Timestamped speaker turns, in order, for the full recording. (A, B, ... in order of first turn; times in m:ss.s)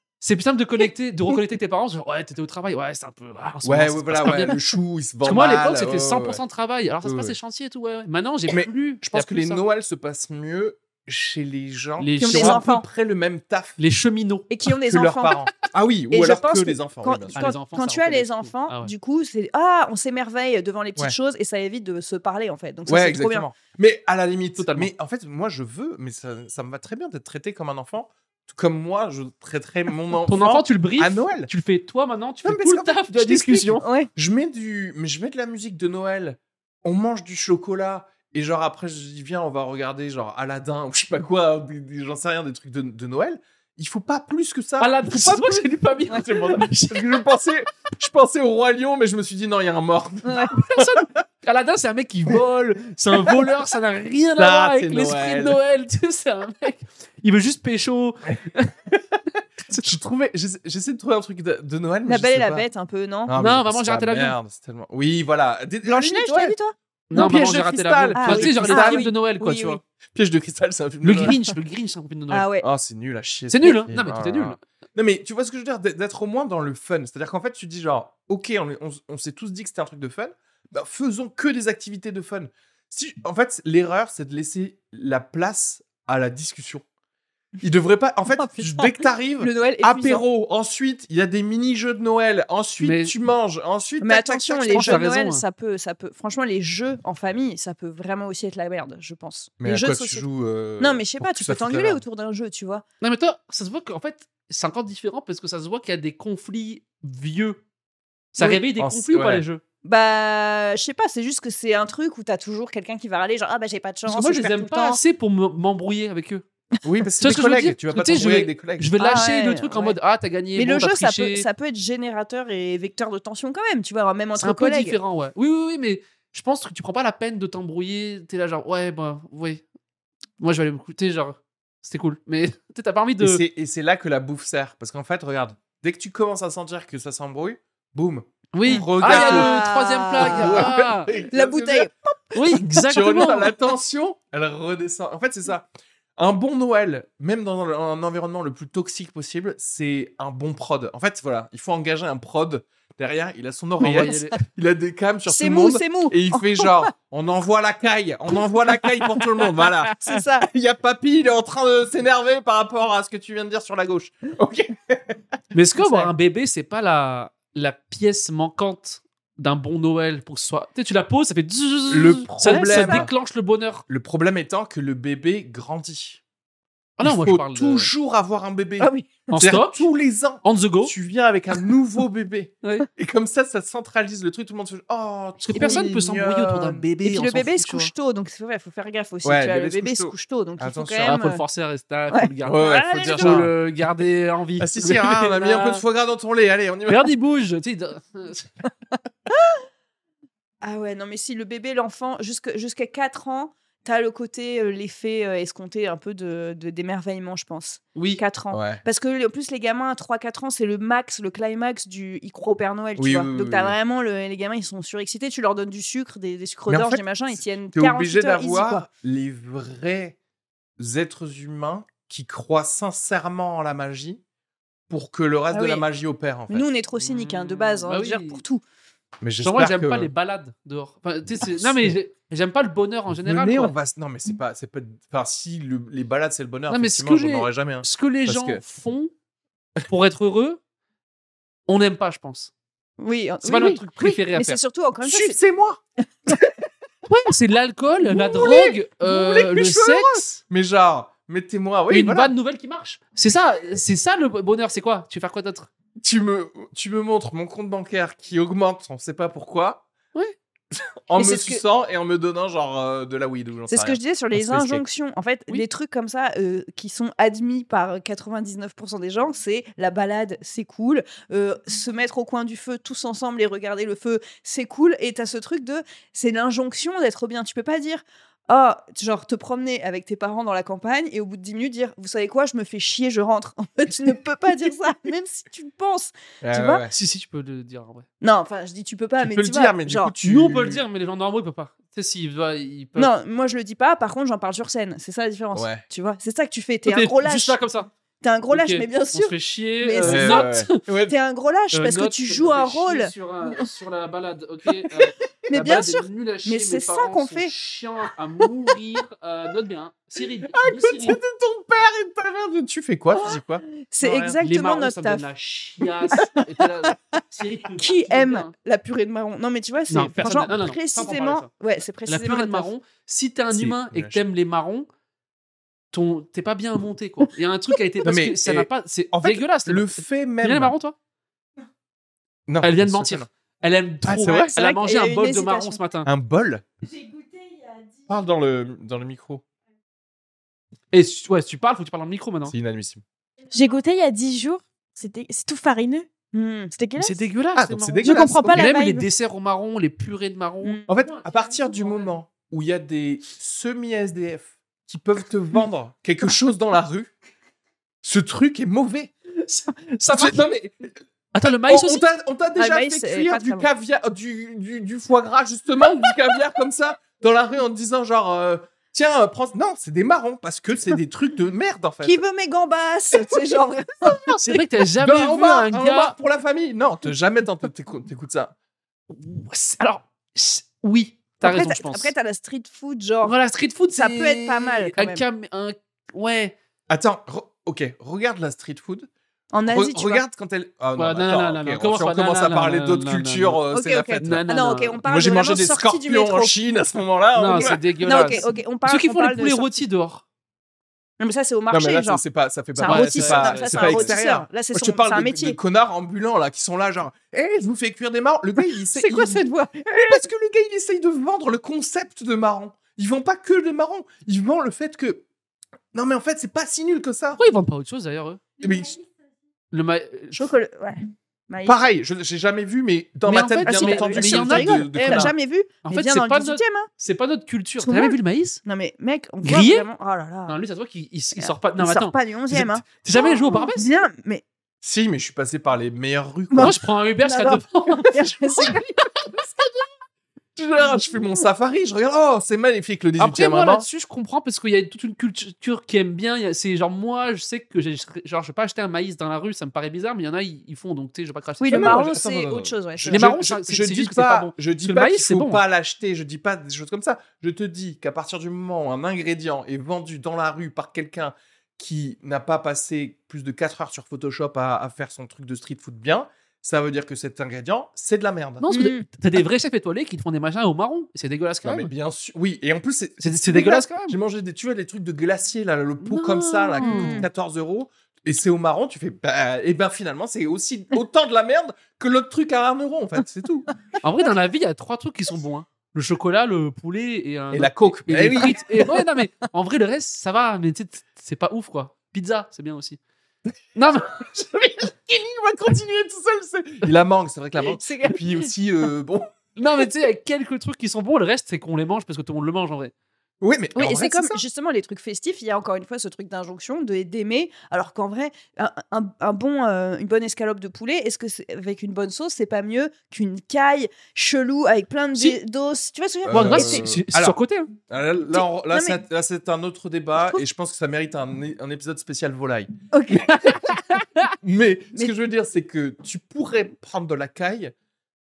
0:00.2-0:04.6 A
0:03.6-0:06.4 B
0:05.2-0:09.6 A
0:07.0-0:07.4 B
0:08.5-0:13.8 B
0:12.0-0:12.6 A
0:12.2-0:12.8 C
0:13.8-0:14.5 A
0:14.5-0:15.4 C
0:14.7-0:17.6 B
0:16.1-0:23.5 C
0:17.3-0:18.9 A
0:22.8-0:31.5 B
0:24.6-0:24.9 A
0:30.2-0:33.8 A
0:32.4-0:51.1 B
0:33.8-0:34.1 C
0:44.8-0:47.2 A
0:50.2-0:50.5 C
0:50.5-0:58.7 A
0:53.2-0:53.5 B
0:54.4-0:55.6 B
0:58.9-0:59.2 B
0:59.8-1:02.6 B
1:02.0-1:03.3 C
1:03.2-1:06.6 B
1:03.4-1:04.4 A
1:05.8-1:07.3 C
1:07.1-1:09.8 A
1:07.1-1:09.1 B
1:08.1-1:09.8 C
1:10.1-1:11.4 B
1:11.0-1:12.5 A
1:12.3-1:12.6 C
1:12.6-1:26.8 B
1:13.5-1:14.6 A
1:27.6-1:35.0 B
1:28.4-1:30.2 C
1:32.8-1:33.1 A
1:34.0-1:40.2 C
1:34.7-1:35.4 A
1:39.6-1:42.0 B
1:40.8-1:42.8 C
1:43.0-1:47.6 A
1:48.3-1:49.6 A
1:48.4-1:49.4 B
1:49.8-1:55.0 C
1:54.1-1:56.4 A
1:56.8-1:58.9 B
1:57.2-2:01.5 A
1:59.0-2:00.0 C
2:00.6-2:05.0 C
2:04.4-2:09.6 A
2:10.4-2:13.4 A
2:13.2-2:21.9 B
2:18.5-2:21.1 A
2:18.7-2:20.7 C
2:21.3-2:22.8 C
2:22.3-2:23.5 A
2:22.6-2:45.2 B
2:33.8-2:34.4 A
2:33.8-2:34.2 C
2:35.3-2:36.9 C
2:39.4-2:40.5 C
2:45.5-2:53.8 A
2:51.9-2:53.1 B
2:52.4-2:53.1 C
2:53.9-2:56.2 B
2:57.0-2:57.9 A
2:57.0-3:06.8 B
2:58.8-2:59.3 C
2:59.3-2:59.9 A
3:00.4-3:00.9 A
3:05.4-3:07.9 A
3:05.5-3:05.9 C
3:07.0-3:11.4 C
3:09.2-3:11.1 B
3:11.0-3:15.8 A
3:12.1-3:13.5 C
3:12.4-3:13.6 B
3:14.6-3:17.1 B
3:16.9-3:18.5 A
3:20.6-3:38.8 C
3:27.9-3:28.2 A
3:28.5-3:28.8 B
3:33.0-3:33.8 B
3:36.7-3:40.2 B
3:40.8-3:44.2 B
3:44.9-3:46.7 B
3:45.5-3:45.8 C
3:46.5-3:48.6 C
3:47.0-3:48.4 A
3:49.2-3:50.1 B
3:49.4-3:53.7 A
3:51.4-3:51.9 B
3:53.2-3:58.6 B
3:56.7-3:59.1 A
3:59.9-4:00.6 A
4:01.7-4:02.5 A
4:03.0-4:05.4 C
4:03.4-4:04.6 A
4:05.0-4:05.8 B
4:07.1-4:10.4 A
4:08.1-4:12.3 B
4:11.9-4:15.7 A
4:16.0-4:19.8 B
4:21.1-4:24.8 B
4:21.2-4:21.6 C
4:23.7-4:46.8 C
4:46.4-4:46.9 B
4:46.9-4:48.0 A
4:48.2-4:50.1 C
4:49.2-4:50.8 B
4:50.2-4:53.1 A
4:53.0-4:57.6 C
4:55.5-4:55.8 B
4:56.8-4:57.9 A
4:58.2-5:00.5 C
4:58.5-5:00.8 A
5:00.0-5:01.1 B
5:01.1-5:03.1 C
5:01.7-5:11.2 A
5:04.9-5:05.6 B
5:05.5-5:07.5 C
5:10.5-5:14.4 B
5:13.2-5:15.2 C
5:14.4-5:18.5 A
5:16.1-5:17.2 C
5:17.8-5:22.7 C
5:19.9-5:21.5 A
5:22.0-5:24.9 A
5:23.5-5:24.2 B
5:25.9-5:30.9 A
5:28.0-5:30.7 B
5:32.5-5:33.3 B
5:32.6-5:36.1 A
5:34.0-5:34.5 B
5:34.2-5:35.8 C
5:36.0-5:36.6 B
5:36.8-5:38.1 D
5:38.1-5:39.4 B
5:40.9-5:42.5 A
5:42.5-5:43.0 B
5:43.5-5:46.1 D
5:46.3-5:46.7 C
5:46.7-5:47.2 D
5:47.0-5:50.9 A
5:47.5-5:48.7 B
5:48.0-5:49.1 D
5:50.9-5:57.1 B
5:51.6-5:51.9 A
5:58.0-5:59.1 B
5:59.4-6:00.4 A
6:00.1-6:00.9 B
6:01.3-6:02.0 A
6:01.7-6:12.2 B
6:02.6-6:03.7 C
6:12.0-6:14.4 C
6:14.0-6:14.4 B
6:14.4-6:16.1 A
6:15.0-6:18.5 B
6:19.1-6:22.1 A
6:21.4-6:23.3 C
6:23.2-6:26.5 A
6:23.9-6:25.2 C
6:26.9-6:29.1 B
6:29.5-6:30.2 C
6:29.7-6:34.4 B
6:31.0-6:33.6 A
6:33.7-6:36.5 C
6:34.2-6:35.0 A
6:35.0-6:38.4 B
6:37.3-6:40.2 A
6:38.0-6:39.8 C
6:41.2-6:42.2 C
6:41.7-6:55.2 B
6:42.7-6:45.6 C
6:42.8-6:44.1 A
6:48.9-6:50.2 C
6:55.9-6:57.4 B
6:57.4-6:58.4 A
6:58.6-6:59.0 B
6:59.7-7:00.5 A
7:00.3-7:01.8 C
7:01.6-7:05.3 B
7:03.2-7:08.6 A
7:03.6-7:06.9 C
7:07.8-7:10.6 C
7:09.4-7:09.9 A
7:10.5-7:13.9 A
7:11.4-7:14.4 C
7:14.8-7:16.8 B
7:16.5-7:18.9 C
7:16.6-7:18.7 A
7:19.2-7:19.8 B
7:20.6-7:23.8 B
7:23.2-7:32.1 A
7:31.6-7:33.3 C
7:31.7-7:48.7 B
7:33.1-7:35.6 A
7:48.6-7:51.9 A
7:48.7-7:49.0 C
7:51.6-8:03.7 B
7:53.2-7:54.2 A
7:56.0-7:57.2 A
7:56.8-7:57.3 C
8:04.0-8:13.0 A
8:07.5-8:09.0 B
8:13.8-8:14.2 A
8:14.2-8:19.3 B
8:17.7-8:18.2 C
8:19.6-8:22.9 A
8:23.4-8:24.4 B
8:23.8-8:36.9 C
8:36.2-8:37.4 B
8:36.3-8:37.7 A
8:37.9-8:43.7 B
8:38.3-8:39.0 C
8:42.9-8:43.8 C
8:44.4-8:47.7 B